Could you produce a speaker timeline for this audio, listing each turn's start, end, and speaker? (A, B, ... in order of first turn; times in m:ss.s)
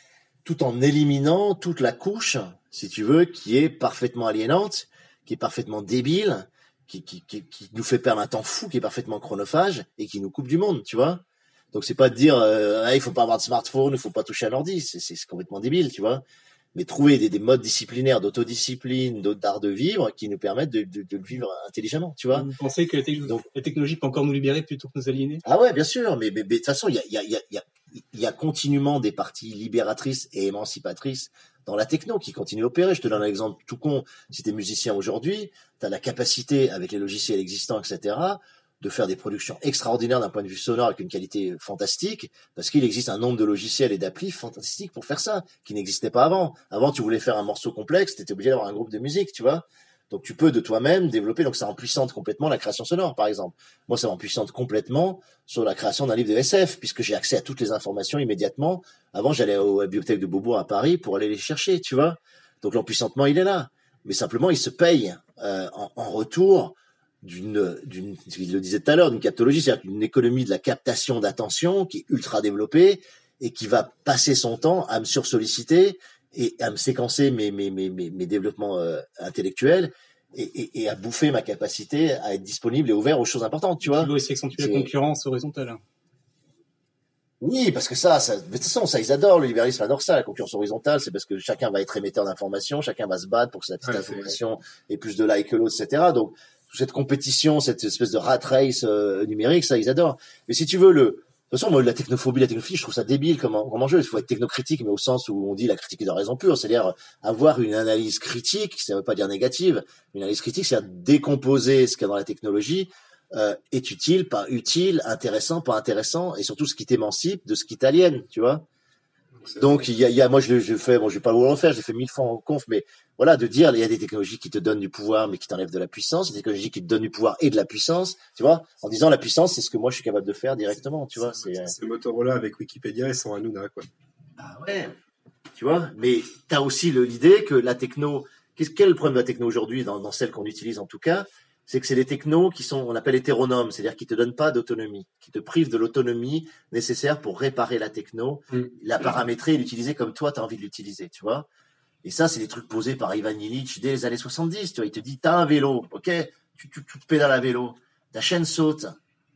0:00.4-0:16.2 A
0:16.8-0:22.5 A
0:22.3-0:25.4 B
0:25.4-1:24.9 A
1:23.8-1:25.8 B
1:27.4-1:58.7 A
1:33.8-1:34.4 C
1:59.4-1:59.8 C
1:59.6-2:11.8 A
2:11.1-2:13.9 C
2:14.4-2:14.9 A
2:15.6-2:31.5 A
2:32.0-2:39.0 A